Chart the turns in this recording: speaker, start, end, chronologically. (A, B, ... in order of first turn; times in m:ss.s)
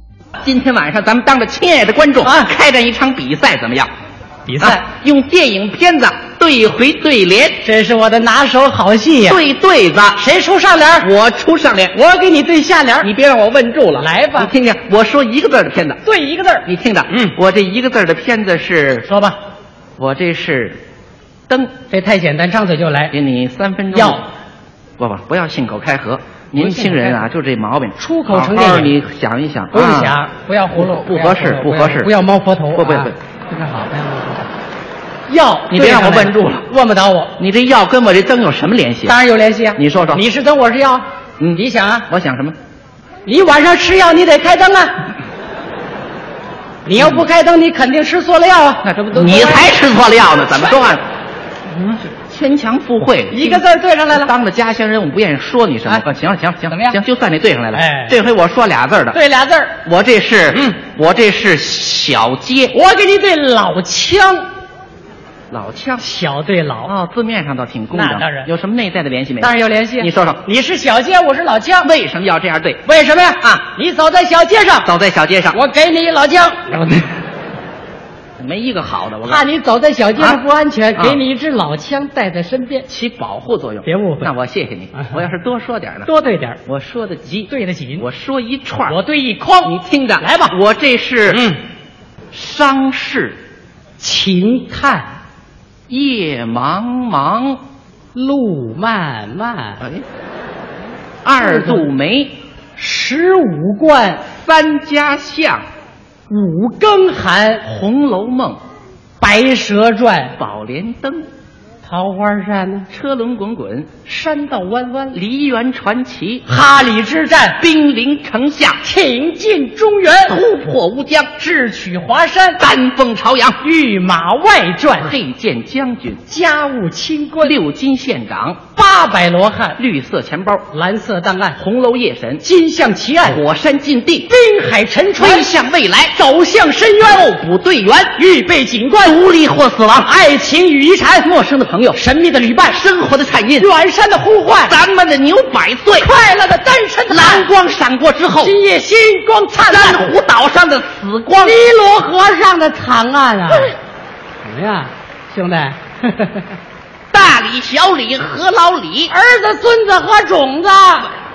0:00.4-0:03.9 A
0:02.2-0:02.5 B
0:04.5-0:04.8 B
0:04.6-0:07.6 A
0:07.6-0:09.4 B
0:09.2-0:10.2 A
0:10.1-0:11.1 B
0:11.0-0:11.9 A
0:11.9-0:13.1 B
0:13.0-0:16.0 A
0:13.9-0:14.5 B
0:16.0-0:17.4 B
0:16.6-0:19.1 A
0:19.0-0:19.4 B
0:20.0-0:20.8 A
0:21.9-0:23.1 B
0:23.1-0:24.2 A
0:23.9-0:24.2 B
0:25.0-0:30.2 A
0:26.6-0:27.2 B
0:28.0-0:28.9 B
0:29.7-0:34.5 B
0:30.7-0:32.1 A
0:32.8-0:33.1 A
0:35.3-0:37.3 B
0:35.7-0:36.7 A
0:37.4-0:39.2 A
0:39.0-0:42.1 B
0:39.8-0:40.2 A
0:41.4-0:42.6 A
0:43.2-0:45.1 B
0:46.8-0:49.7 B
0:47.0-0:47.2 A
0:48.8-0:51.0 A
0:52.1-0:59.2 A
0:53.3-0:54.3 B
0:56.7-0:57.0 B
0:57.7-0:58.2 B
0:59.1-0:59.8 B
0:59.8-1:02.8 A
1:00.5-1:00.8 B
1:02.7-1:04.4 B
1:05.5-1:06.0 A
1:06.0-1:06.9 B
1:06.8-1:10.4 A
1:07.9-1:08.5 B
1:09.4-1:11.9 B
1:11.8-1:12.8 A
1:12.8-1:14.9 B
1:13.4-1:13.6 A
1:14.8-1:15.6 A
1:15.5-1:17.0 B
1:18.4-1:19.4 A
1:19.2-1:22.8 B
1:20.2-1:20.4 A
1:22.9-1:26.1 A
1:23.8-1:24.3 B
1:26.0-1:26.6 B
1:26.6-1:29.0 A
1:27.5-1:28.0 B
1:28.9-1:30.6 B
1:29.6-1:31.4 A
1:31.3-1:31.6 B
1:32.3-1:33.4 A
1:34.0-1:35.1 B
1:35.9-1:37.6 A
1:38.1-1:39.8 B
1:41.2-1:42.4 A
1:41.4-1:41.8 B
1:42.8-1:44.2 B
1:44.3-1:45.6 A
1:46.3-1:47.6 B
1:47.6-1:48.6 A
1:49.2-1:50.4 B
1:50.4-1:51.3 A
1:51.8-1:52.9 B
1:52.9-1:53.9 A
1:54.0-1:55.2 B
1:55.1-1:56.4 A
1:56.4-1:57.6 B
1:57.6-1:58.8 A
1:58.8-2:00.4 B
2:00.2-2:01.3 A
2:01.4-2:02.6 B
2:02.6-2:03.6 A
2:03.6-2:05.1 B
2:04.9-2:06.2 A
2:06.3-2:07.6 B
2:07.4-2:08.6 A
2:08.7-2:09.8 B
2:09.8-2:10.7 A
2:10.7-2:11.6 B
2:11.6-2:12.4 A
2:12.4-2:13.4 B
2:13.2-2:14.3 A
2:14.3-2:15.5 B
2:15.2-2:16.1 A
2:16.1-2:17.3 B
2:17.0-2:18.2 A
2:18.1-2:19.2 B
2:19.0-2:20.1 A
2:19.9-2:21.3 B
2:21.1-2:22.0 A
2:21.9-2:22.8 B
2:22.7-2:23.7 A
2:23.6-2:24.8 B
2:24.5-2:26.1 A
2:26.0-2:27.5 B
2:27.1-2:28.5 A
2:28.4-2:30.0 B
2:29.7-2:31.6 A
2:31.4-2:33.7 B
2:34.4-2:36.4 B
2:37.1-2:39.1 A
2:39.1-2:41.1 B